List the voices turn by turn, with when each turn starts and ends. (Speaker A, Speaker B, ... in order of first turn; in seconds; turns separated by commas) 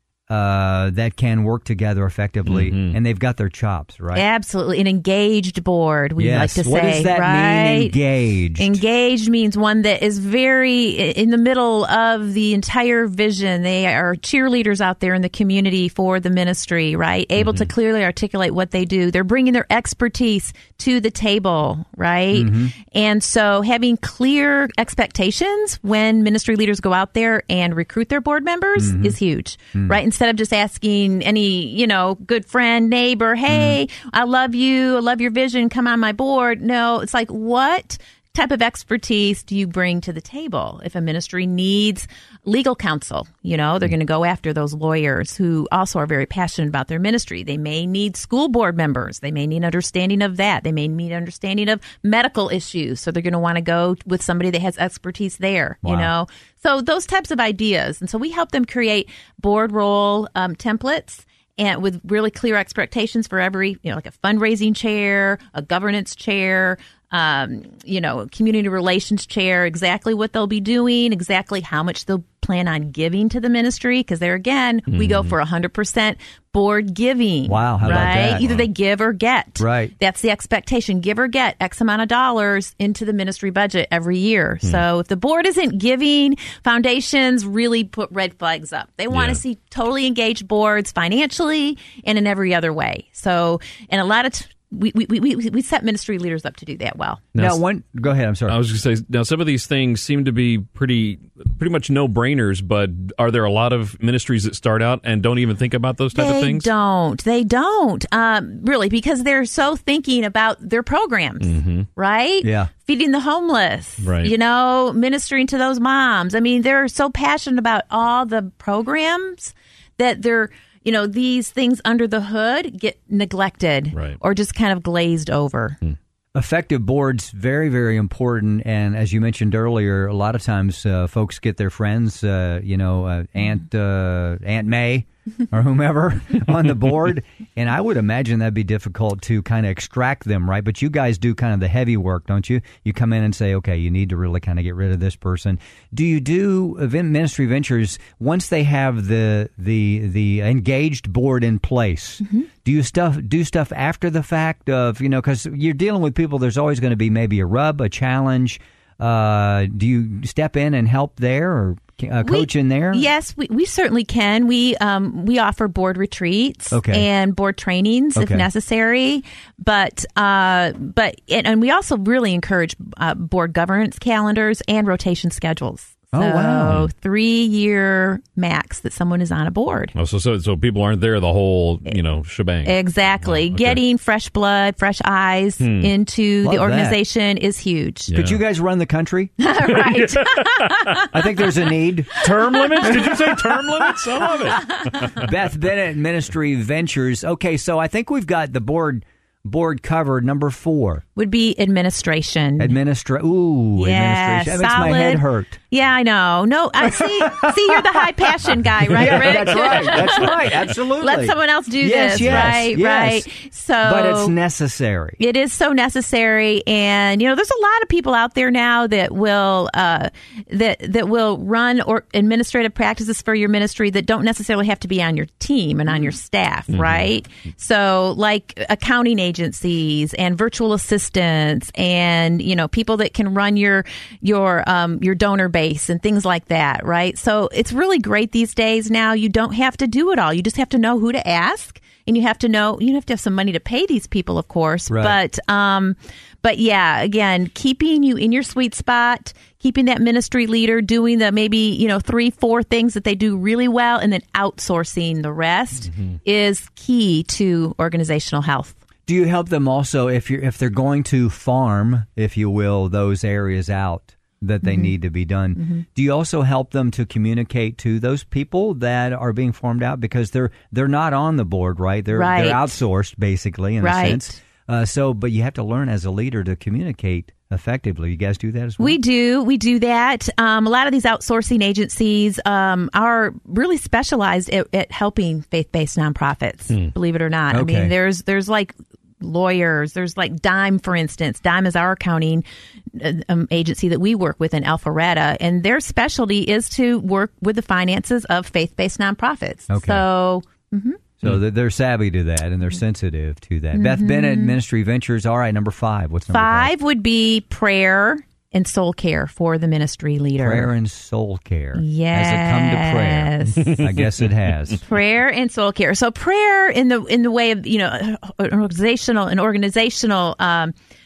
Speaker A: 0.3-4.2, Speaker B: 2.5-3.0, Speaker C: 4.1-8.0, Speaker A: 6.2-8.8, Speaker C: 8.6-97.2, Speaker B: 17.4-17.7, Speaker A: 22.3-22.7, Speaker A: 28.8-29.1, Speaker A: 33.5-33.8, Speaker A: 55.8-56.1, Speaker B: 74.9-75.3, Speaker A: 77.5-78.4, Speaker B: 77.8-78.7, Speaker A: 79.6-79.9, Speaker B: 89.1-89.4, Speaker B: 97.3-97.6, Speaker A: 97.3-98.6, Speaker B: 98.5-106.7, Speaker C: 106.1-125.8, Speaker B: 111.4-111.9, Speaker A: 112.4-112.7, Speaker B: 114.0-114.3, Speaker B: 123.9-124.2, Speaker A: 126.3-163.0, Speaker C: 162.2-179.9, Speaker A: 166.7-167.1, Speaker A: 168.2-168.5, Speaker A: 176.1-176.8, Speaker B: 179.9-183.8, Speaker C: 182.6-188.1, Speaker B: 185.6-185.9, Speaker A: 186.4-187.0, Speaker B: 188.1-188.4, Speaker A: 188.1-189.3, Speaker C: 189.4-191.1, Speaker B: 189.6-191.1, Speaker A: 191.0-194.0, Speaker B: 192.2-195.3, Speaker A: 195.2-201.0, Speaker C: 201.2-202.8, Speaker A: 202.6-205.6, Speaker C: 203.8-210.5, Speaker A: 206.8-208.2, Speaker A: 208.9-213.3, Speaker B: 209.1-210.3, Speaker C: 211.0-214.3, Speaker B: 212.2-212.5, Speaker A: 213.8-215.2, Speaker C: 215.2-258.8, Speaker B: 226.7-227.1, Speaker A: 244.9-245.2, Speaker A: 259.1-279.0, Speaker C: 264.6-264.9, Speaker C: 265.6-265.8, Speaker C: 272.1-272.8, Speaker C: 273.8-274.4, Speaker C: 278.8-301.0, Speaker A: 287.5-287.9, Speaker A: 299.7-300.1, Speaker A: 301.2-306.7, Speaker C: 303.7-304.6, Speaker C: 306.3-310.7, Speaker A: 310.4-314.8, Speaker C: 311.7-313.8, Speaker B: 313.6-313.9, Speaker C: 314.8-320.7